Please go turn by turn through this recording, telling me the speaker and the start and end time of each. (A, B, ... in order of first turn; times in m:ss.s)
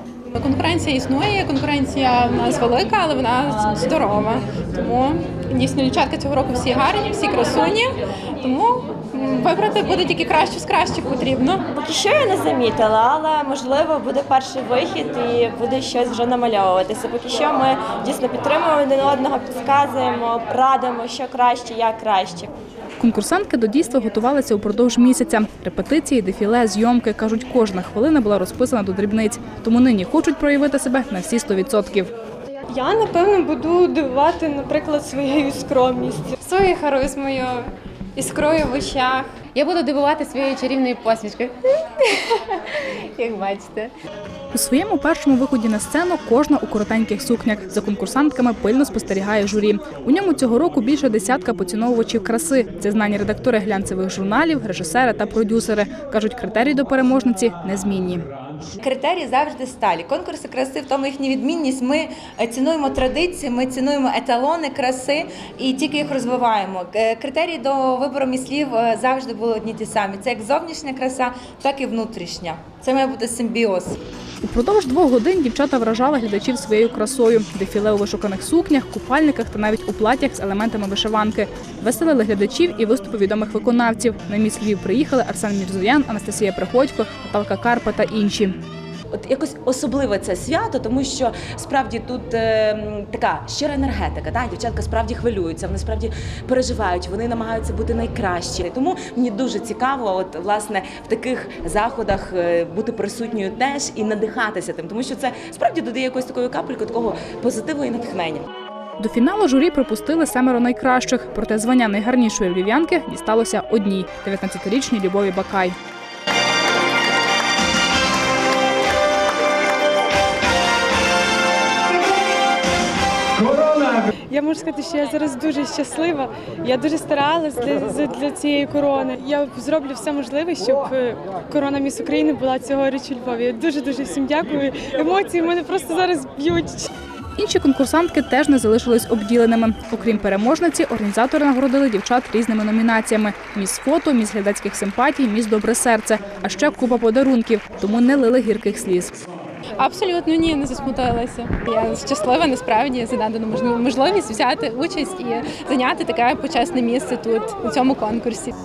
0:00.3-0:11.7 A
0:11.8-0:22.5 B
0:23.0-0:32.1 C
0:32.7-0:36.5 D
0:36.4-0:43.9 A
0:44.5-0:58.2 C
0:58.8-1:14.0 E
1:14.4-1:28.5 C
1:29.1-1:48.4 F
1:49.0-1:55.8 C
2:03.7-2:16.9 D
2:17.4-2:29.1 C
2:29.8-2:38.5 A